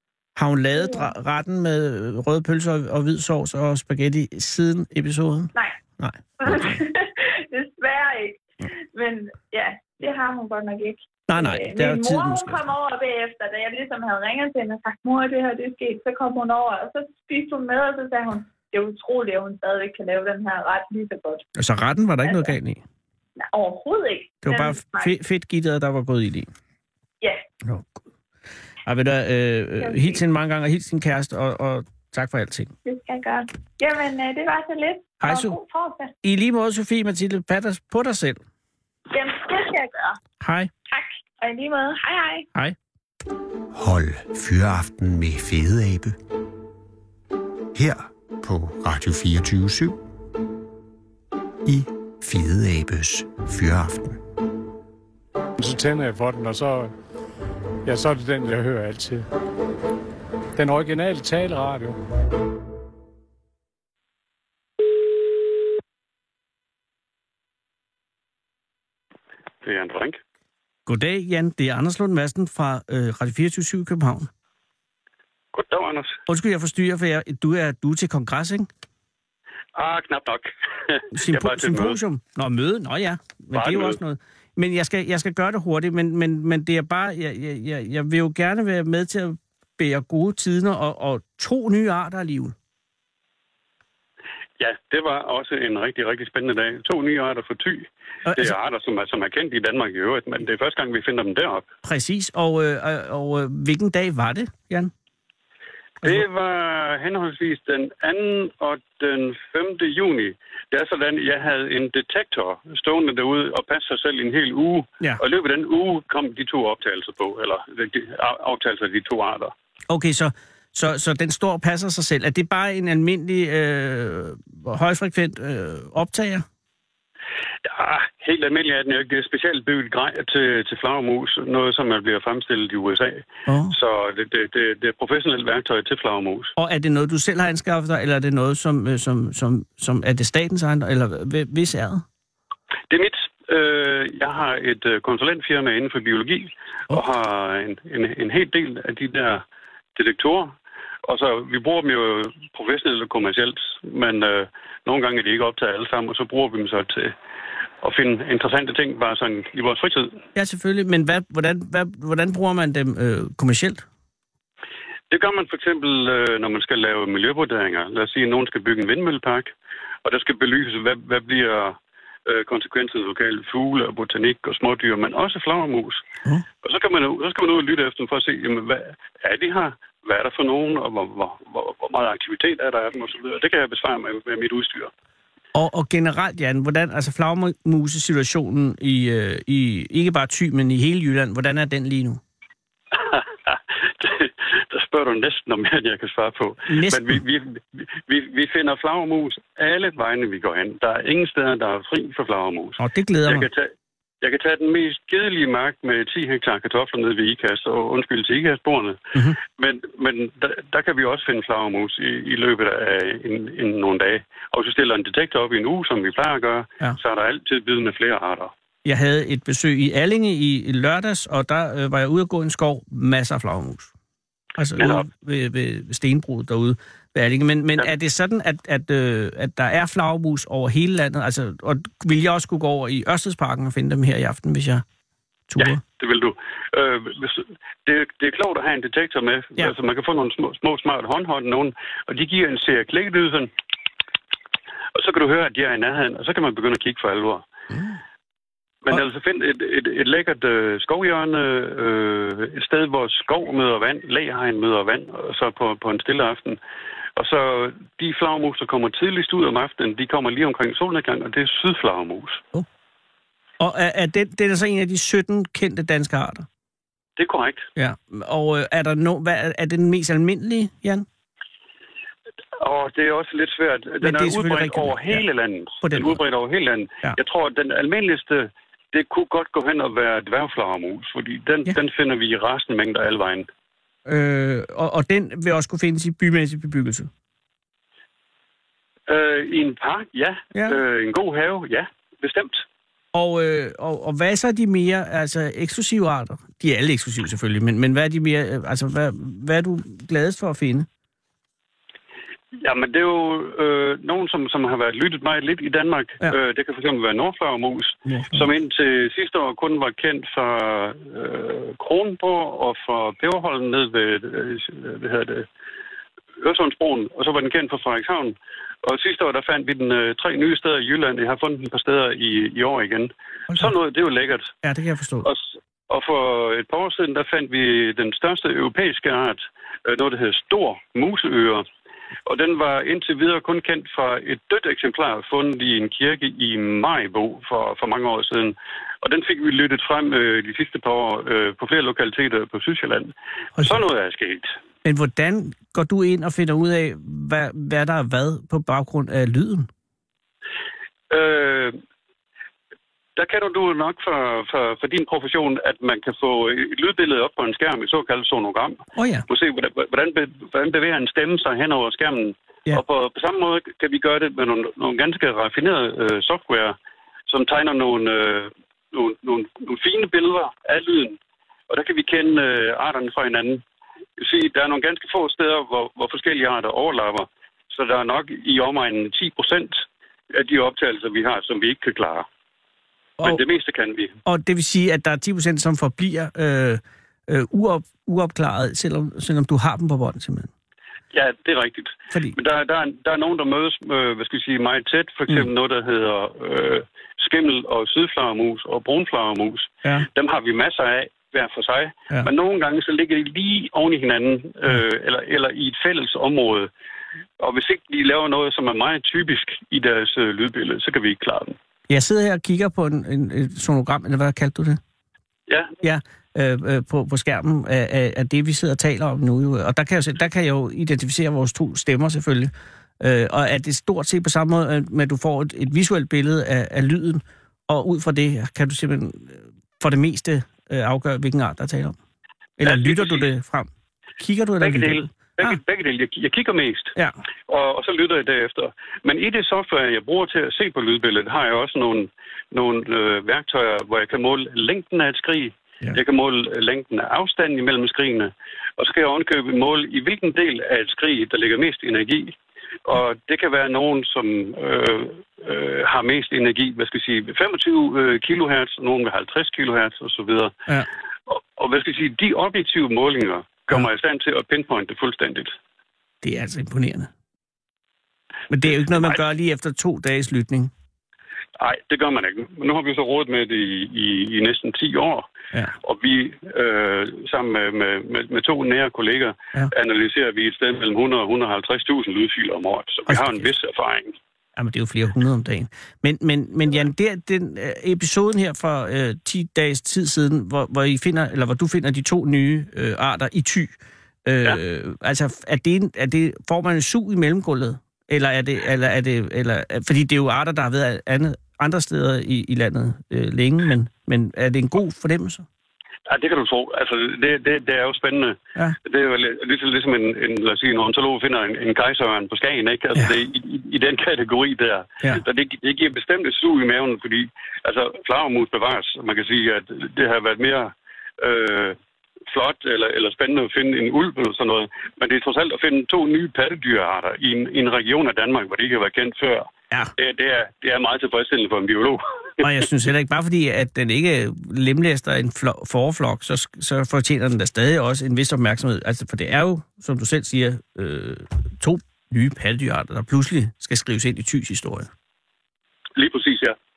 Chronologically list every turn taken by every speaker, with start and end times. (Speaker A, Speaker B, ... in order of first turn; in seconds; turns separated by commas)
Speaker A: 0.4-6.8, Speaker B: 0.7-1.1, Speaker B: 6.4-21.5, Speaker A: 11.3-12.6, Speaker A: 21.6-22.8, Speaker B: 22.2-22.6, Speaker B: 23.4-25.1, Speaker A: 24.4-26.5, Speaker A: 27.6-28.0, Speaker A: 28.8-32.7, Speaker B: 29.8-30.2, Speaker B: 32.9-36.1, Speaker A: 35.2-35.6, Speaker A: 36.2-38.4, Speaker B: 39.1-40.2, Speaker A: 40.4-40.7, Speaker B: 40.9-42.5, Speaker C: 43.7-46.2, Speaker C: 47.7-50.0, Speaker C: 51.7-54.2, Speaker D: 55.6-56.9, Speaker D: 57.9-59.2, Speaker D: 60.6-62.0, Speaker E: 69.6-70.2, Speaker A: 70.9-74.3, Speaker E: 75.5-76.2, Speaker A: 76.3-78.7, Speaker E: 79.8-82.0, Speaker A: 81.1-92.5, Speaker E: 83.5-84.0, Speaker E: 94.6-101.7, Speaker A: 98.3-98.6, Speaker A: 101.8-104.9, Speaker E: 106.0-119.5, Speaker A: 119.9-126.5, Speaker E: 127.7-136.5, Speaker A: 133.5-133.8, Speaker A: 136.6-142.1, Speaker E: 142.9-149.4, Speaker E: 150.0-150.5, Speaker E: 151.1-157.1, Speaker E: 157.8-160.2, Speaker A: 160.3-163.8, Speaker E: 165.1-169.5, Speaker E: 170.1-176.0, Speaker E: 176.6-184.9, Speaker A: 185.5-192.2, Speaker E: 192.9-203.7, Speaker A: 196.7-197.2, Speaker A: 202.8-203.5, Speaker E: 204.2-209.0, Speaker E: 209.6-218.5, Speaker A: 218.8-223.9, Speaker A: 224.6-234.8, Speaker E: 224.8-225.1, Speaker A: 235.5-235.8, Speaker E: 235.6-243.5, Speaker E: 244.9-247.5, Speaker A: 247.7-248.0, Speaker E: 248.8-256.6, Speaker E: 257.2-262.4, Speaker A: 263.6-266.5, Speaker E: 267.2-267.7, Speaker A: 267.8-271.1, Speaker E: 272.6-283.5, Speaker A: 274.0-275.2, Speaker A: 275.8-276.2, Speaker A: 284.1-287.1, Speaker E: 289.1-292.6, Speaker A: 290.5-290.8, Speaker A: 293.1-300.9, Speaker E: 302.6-315.5, Speaker A: 308.1-308.5, Speaker E: 316.4-324.5, Speaker A: 324.6-325.3, Speaker E: 325.2-331.6, Speaker E: 332.3-344.5, Speaker A: 344.8-349.7, Speaker E: 351.1-351.8, Speaker E: 353.2-366.8, Speaker A: 359.0-359.3, Speaker E: 367.3-371.2, Speaker E: 371.7-373.6, Speaker E: 374.2-382.3, Speaker E: 383.2-384.1, Speaker A: 384.3-390.5, Speaker E: 391.1-406.7, Speaker E: 407.4-411.6, Speaker A: 411.9-414.8, Speaker E: 415.5-415.7, Speaker A: 415.8-432.0, Speaker A: 432.6-435.6, Speaker E: 432.6-433.3, Speaker E: 434.6-436.9, Speaker E: 437.5-452.4, Speaker E: 452.9-460.5, Speaker E: 461.3-465.5, Speaker A: 466.2-467.1, Speaker A: 468.5-470.7, Speaker E: 471.6-475.3, Speaker E: 475.8-484.1, Speaker A: 483.1-483.5, Speaker A: 484.6-493.7, Speaker A: 494.2-505.5, Speaker E: 506.1-521.8, Speaker E: 522.3-532.4, Speaker A: 532.4-544.9, Speaker E: 546.0-546.6